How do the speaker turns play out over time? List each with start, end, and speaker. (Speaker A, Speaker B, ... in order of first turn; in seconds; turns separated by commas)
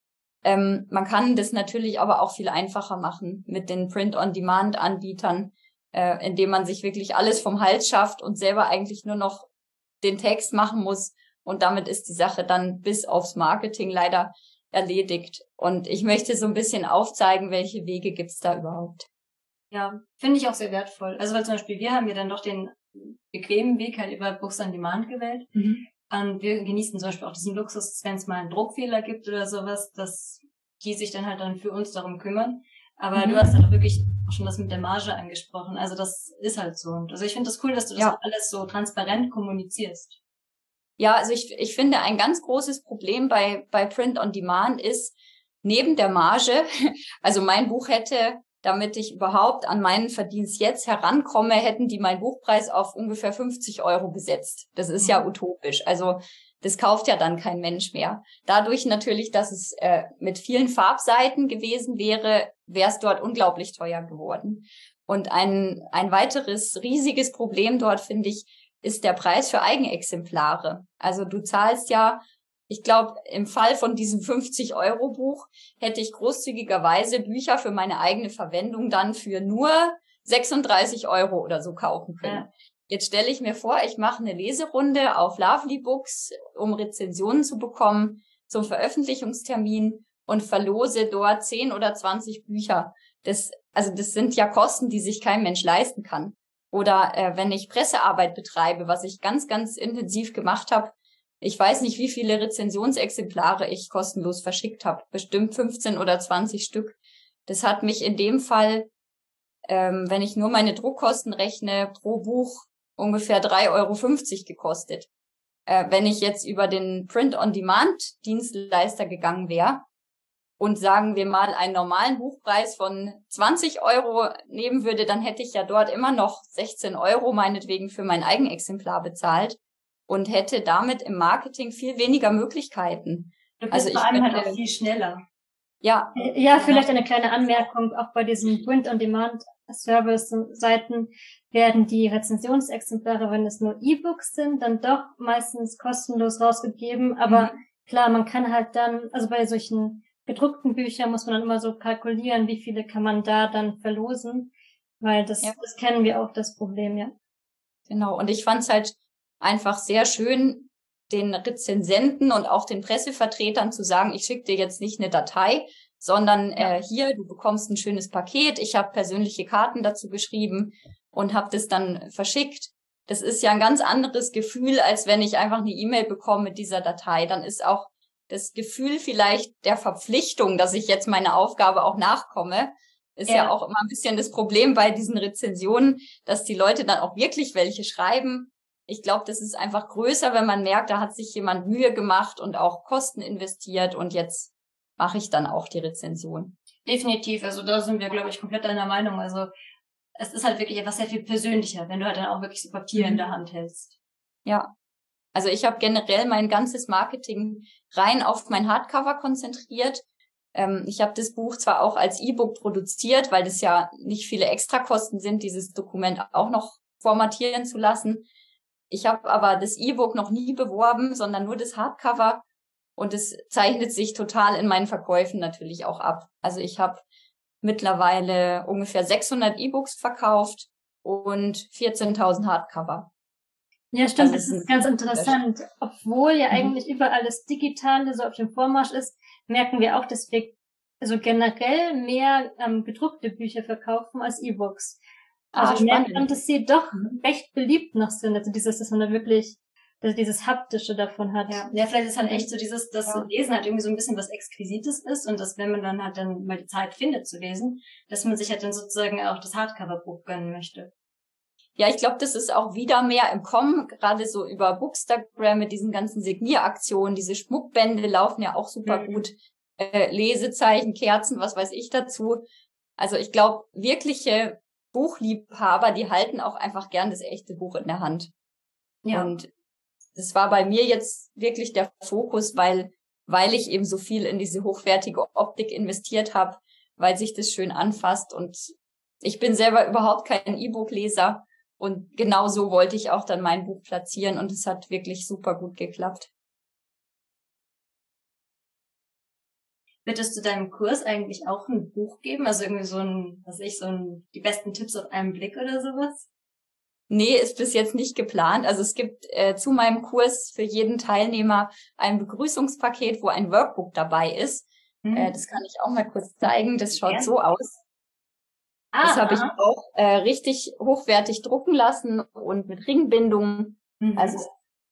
Speaker A: 0.4-9.5, Speaker A: 10.0-19.1, Speaker B: 19.7-25.6, Speaker A: 25.6-25.8, Speaker B: 26.1-40.2, Speaker A: 33.1-33.6, Speaker A: 41.0-46.7, Speaker A: 47.2-108.9, Speaker B: 55.0-55.2, Speaker A: 109.7-115.1, Speaker A: 115.7-119.9, Speaker A: 120.6-134.6, Speaker B: 133.6-135.2, Speaker A: 135.8-136.8, Speaker C: 136.2-157.1, Speaker A: 147.3-147.6, Speaker A: 157.9-196.6, Speaker B: 183.3-183.5, Speaker B: 196.8-199.5, Speaker B: 200.2-204.0, Speaker A: 203.0-203.2, Speaker A: 204.5-204.7, Speaker A: 205.3-218.3, Speaker A: 218.9-222.4, Speaker A: 223.0-227.0, Speaker A: 227.6-233.1, Speaker C: 233.9-245.0, Speaker A: 234.2-235.4, Speaker A: 245.5-246.4, Speaker C: 245.5-251.7, Speaker B: 251.5-260.9, Speaker A: 261.8-272.5, Speaker B: 268.9-269.2, Speaker A: 273.0-278.3, Speaker B: 279.1-279.3, Speaker A: 279.1-279.5, Speaker A: 280.2-296.3, Speaker B: 300.1-306.3, Speaker A: 307.1-317.8, Speaker B: 315.0-315.4, Speaker B: 317.0-317.3, Speaker B: 318.9-319.5, Speaker A: 319.0-324.5, Speaker B: 324.0-324.4